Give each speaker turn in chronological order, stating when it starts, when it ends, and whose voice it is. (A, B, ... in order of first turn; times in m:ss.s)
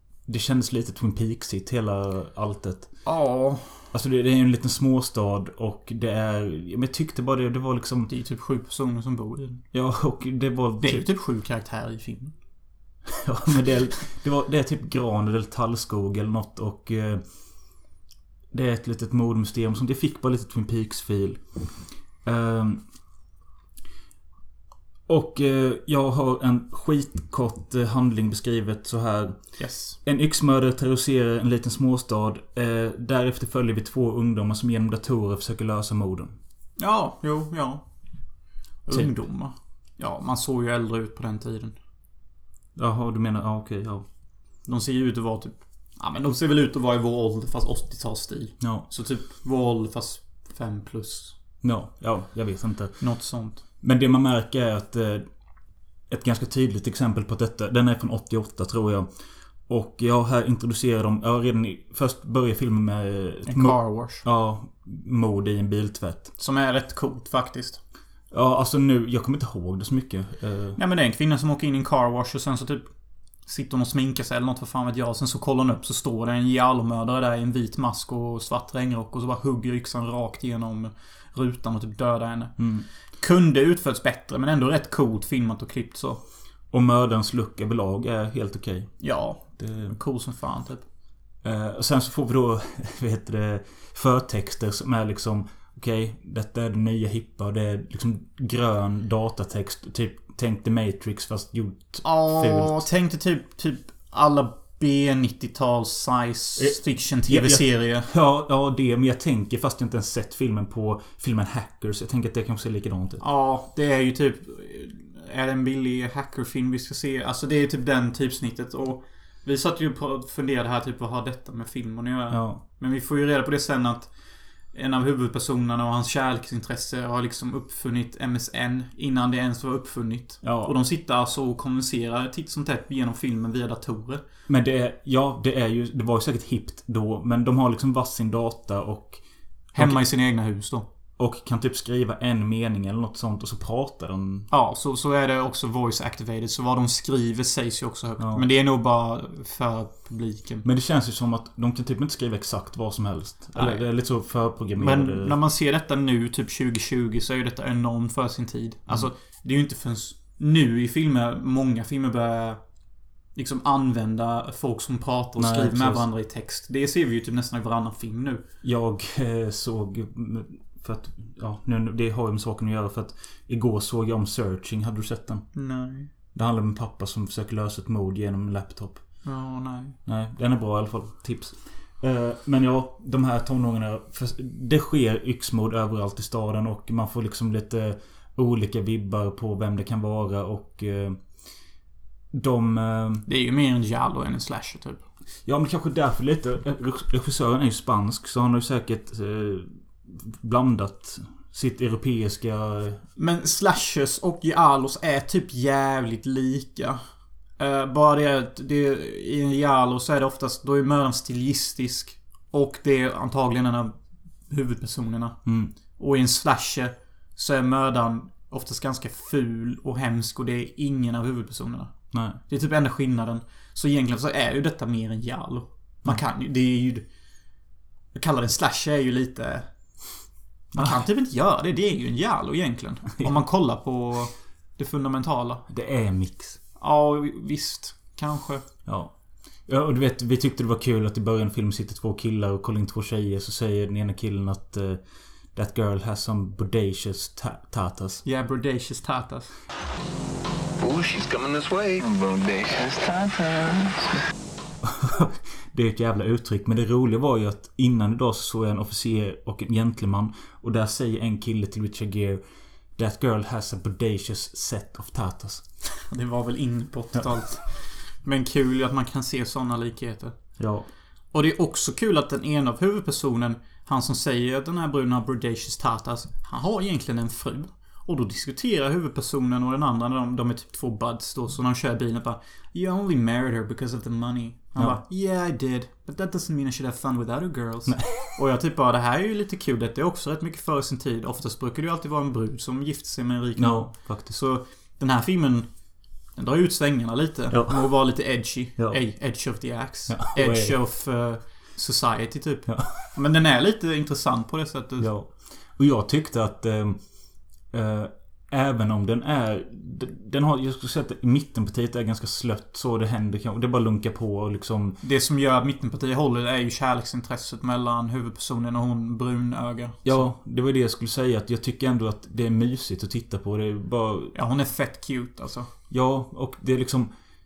0:00.3-0:02.9 A
0:03.0-0:03.9 B
0:03.9-0:08.1 A
0:08.1-0:09.6 B
0:09.7-0:11.1 A
0:10.8-0:12.4 B
0:13.1-0:17.2 A
0:18.5-0:21.4 A
0:22.2-0:22.8 A
0:25.1-0:29.4 A
0:29.6-0:30.0 B
0:30.0-0:36.4 A
0:36.8-0:37.9 B
0:38.9-0:41.8 B
0:42.8-0:44.0 A
0:44.6-0:51.4 B
0:48.6-0:48.9 A
0:51.6-0:53.0 A
0:53.0-0:53.6 B
0:53.8-0:55.3 A
0:56.1-0:59.1 A
0:59.7-1:06.3 A
1:03.5-1:04.2 B
1:06.4-1:07.8 B
1:08.3-1:10.8 A
1:10.8-1:12.9 B
1:13.5-1:22.6 B
1:22.6-1:22.9 A
1:23.2-1:26.2 B
1:26.7-1:28.9 A
1:29.0-1:30.8 B
1:29.6-1:30.0 A
1:31.4-1:42.8 A
1:42.0-1:48.1 B
1:46.6-1:53.2 A
1:53.2-2:04.1 B
2:02.3-2:02.6 A
2:04.7-2:14.2 B
2:10.4-2:10.7 A
2:14.5-2:19.2 A
2:19.7-2:20.0 A
2:19.7-2:20.9 B
2:21.2-2:24.5 A
2:24.5-2:30.6 B
2:28.2-2:28.4 A
2:30.6-2:35.4 A
2:33.5-2:33.8 B
2:34.8-2:42.6 B
2:43.4-2:48.4 B
2:45.4-2:46.1 A
2:48.6-2:55.5 A
2:55.5-2:56.1 B
2:56.3-2:59.0 A
2:59.2-3:00.0 B
3:00.1-3:11.2 A
3:12.3-3:13.2 A
3:13.3-3:15.0 B
3:15.5-3:23.0 A
3:23.2-3:27.0 B
3:27.6-3:34.0 B
3:34.5-3:35.4 B
3:35.5-3:35.7 A
3:36.0-3:41.9 B
3:42.1-3:42.4 A
3:42.5-3:47.1 B
3:48.1-3:49.7 B
3:50.7-3:55.6 B
3:55.7-3:56.6 A
3:56.8-3:58.7 B
3:58.9-3:59.1 A
3:59.7-4:05.0 A
4:05.5-4:08.2 A
4:08.2-4:09.5 B
4:10.8-4:14.3 C
4:14.8-4:22.4 A
4:23.0-4:25.6 A
4:26.0-4:30.4 B
4:30.6-4:30.9 A
4:31.3-4:55.7 B
4:47.9-4:48.4 A
4:53.6-4:54.4 A
4:56.4-5:05.1 B
4:57.5-4:57.9 A
5:00.1-5:00.8 A
5:02.7-5:03.1 A
5:05.0-5:07.0 A
5:07.7-5:15.0 A
5:15.0-5:20.3 B
5:20.0-5:24.4 A
5:24.3-5:25.7 B
5:25.9-5:27.1 A